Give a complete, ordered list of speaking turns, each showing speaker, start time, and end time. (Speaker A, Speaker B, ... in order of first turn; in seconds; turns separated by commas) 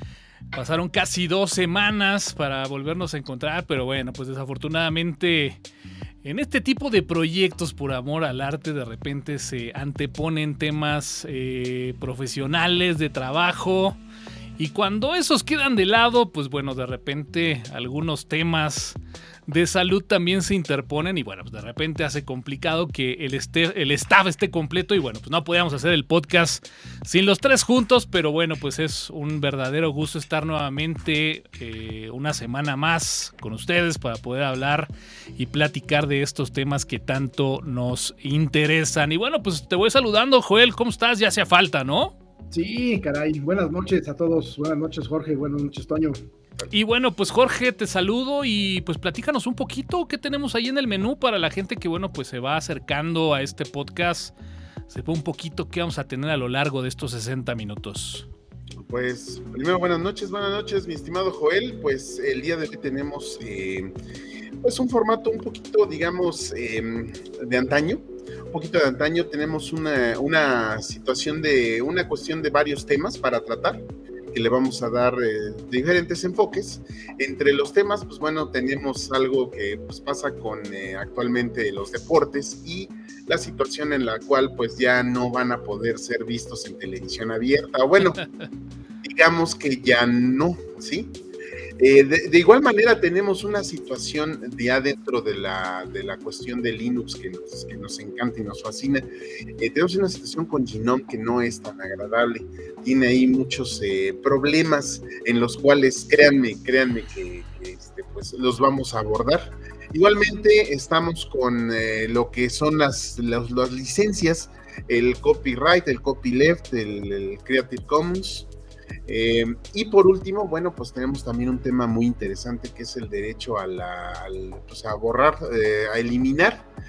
Speaker A: 0.5-5.6, Speaker A: 6.2-14.0, Speaker A: 14.6-42.1, Speaker B: 42.5-46.2, Speaker A: 46.7-54.3, Speaker A: 54.9-58.3, Speaker C: 58.8-63.9, Speaker C: 64.6-88.2, Speaker A: 88.2-88.5, Speaker C: 89.0-91.1, Speaker C: 91.8-99.0, Speaker C: 99.6-118.5, Speaker C: 119.1-126.7